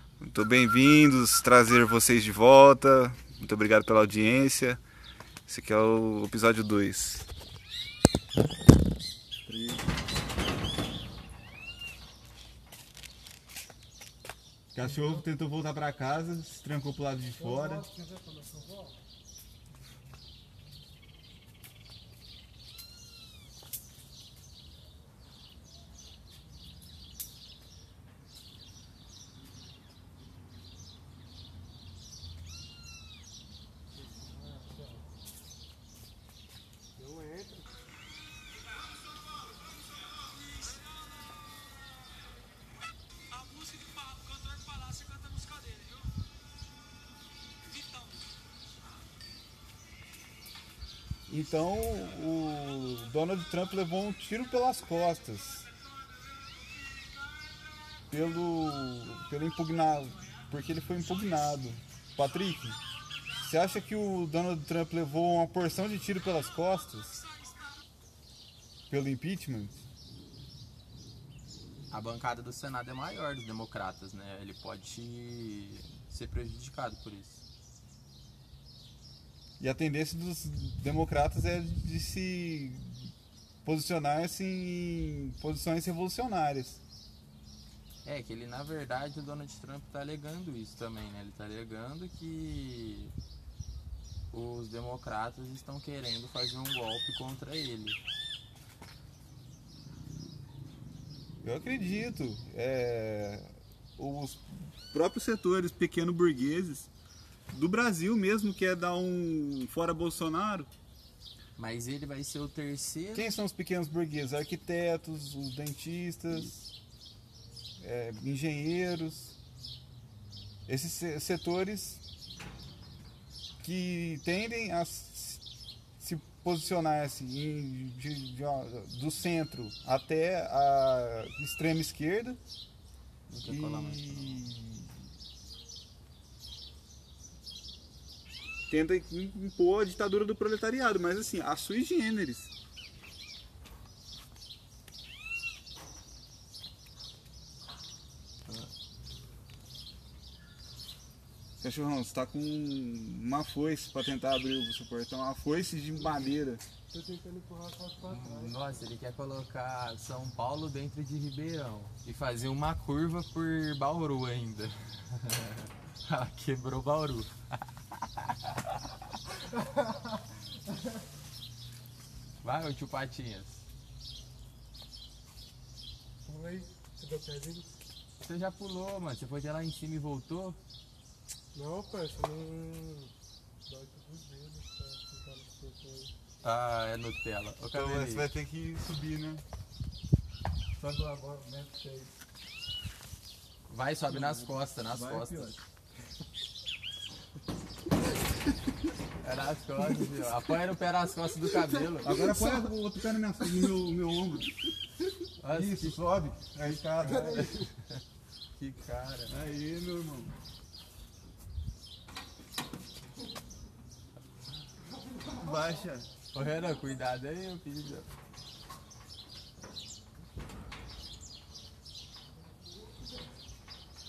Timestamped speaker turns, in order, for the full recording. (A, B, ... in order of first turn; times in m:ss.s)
0:00.2-0:04.8 A
0:05.5-0:07.3 A
0:09.5-0:09.9 A
0:14.8-0:17.9 A
0:14.8-0:15.2 B
0:17.4-0:19.0 B
0:34.4-0:35.0 B
0:37.0-0:37.7 B
0:51.3-0:55.7 A
0:58.1-1:02.8 A
1:03.4-1:07.2 A
1:08.9-1:09.8 A
1:11.9-1:17.4 C
1:19.6-1:23.1 A
1:23.6-1:26.8 A
1:28.0-1:33.1 C
1:34.3-1:38.0 C
1:41.4-1:46.9 A
1:47.5-1:50.7 A
1:51.6-1:53.3 C
1:53.2-1:56.6 A
1:57.8-1:59.4 A
2:00.7-2:02.0 A
2:03.6-2:05.4 A
2:06.0-2:12.4 A
2:13.3-2:14.5 C
2:13.5-2:15.1 A
2:18.7-2:22.5 A
2:31.6-2:36.6 A
2:36.9-2:38.8 B
2:38.0-2:47.6 C
2:48.2-2:48.7 C
2:52.4-2:53.6 C
2:56.3-2:57.7 B
2:58.2-3:00.6 C
3:01.5-3:03.1 B
3:03.7-3:06.1 B
3:06.4-3:08.3 C
3:07.7-3:09.4 A
3:10.8-3:12.1 A
3:13.7-3:15.6 C
3:14.1-3:15.6 A
3:19.2-3:22.2 C
3:22.0-3:24.7 A
3:22.2-3:22.7 B
3:25.4-3:28.0 C
3:25.5-3:27.6 A
3:27.3-3:27.6 B
3:28.6-3:29.4 C
3:29.3-3:30.3 A
3:35.3-3:36.1 A
3:36.3-3:38.1 C